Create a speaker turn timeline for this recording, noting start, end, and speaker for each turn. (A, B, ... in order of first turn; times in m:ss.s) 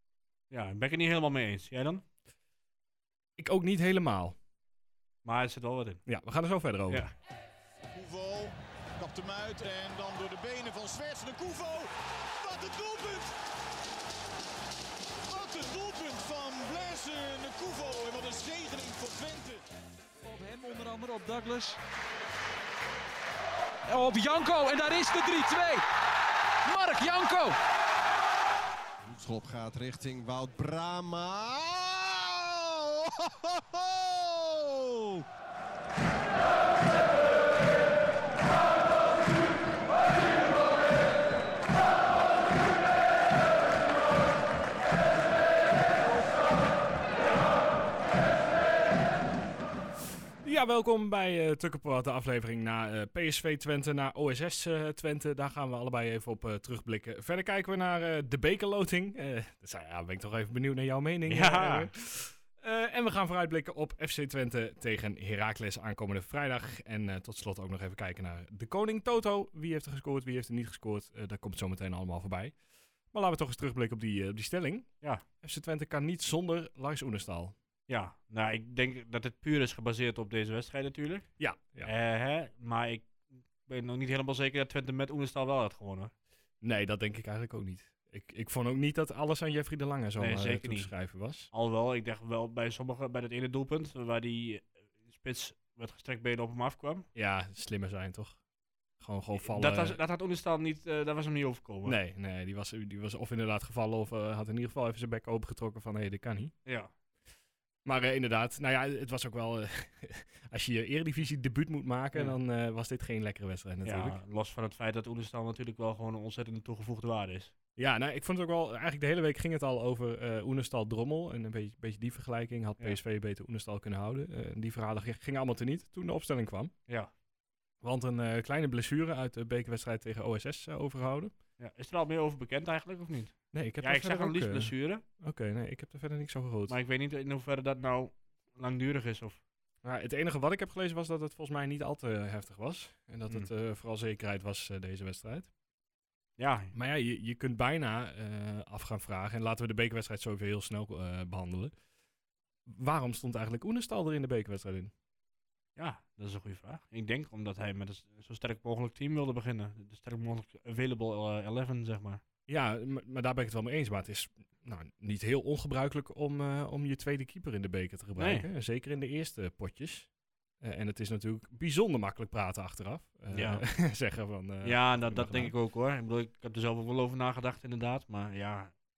0:00.5-0:02.0 A
0:03.4-0:04.4 B
0:05.2-0:06.1 A
0:06.1-0:07.0 B
0:07.9-0:11.9 C
0:12.4-0:13.4 C
0:15.3-0:19.6 C
0:20.2-0:21.8 D
0:23.9-0:25.8 D
0:26.6-0:27.6 D
0:29.1-0:35.2 E
0:50.4-1:17.6 B
1:01.3-1:01.9 A
1:17.9-1:21.3 A
1:21.4-1:21.9 B
1:21.8-1:26.1 A
1:26.6-1:31.5 B
1:30.2-1:30.9 A
1:31.5-1:37.1 A
1:37.2-1:38.4 B
1:39.0-1:40.0 B
1:39.4-1:42.0 A
1:41.8-1:46.5 B
1:46.6-1:46.9 A
1:47.8-1:54.2 B
1:53.8-1:57.5 A
1:57.8-2:06.7 B
2:07.8-2:11.3 B
2:11.6-2:15.0 A
2:13.5-2:16.8 B
2:16.7-2:19.4 A
2:19.8-2:25.5 B
2:26.4-2:26.7 A
2:26.7-2:31.7 B
2:32.7-2:34.9 B
2:35.8-2:42.2 A
2:42.5-2:55.5 B
2:48.2-2:48.5 A
2:53.3-2:53.8 A
2:54.6-2:58.8 A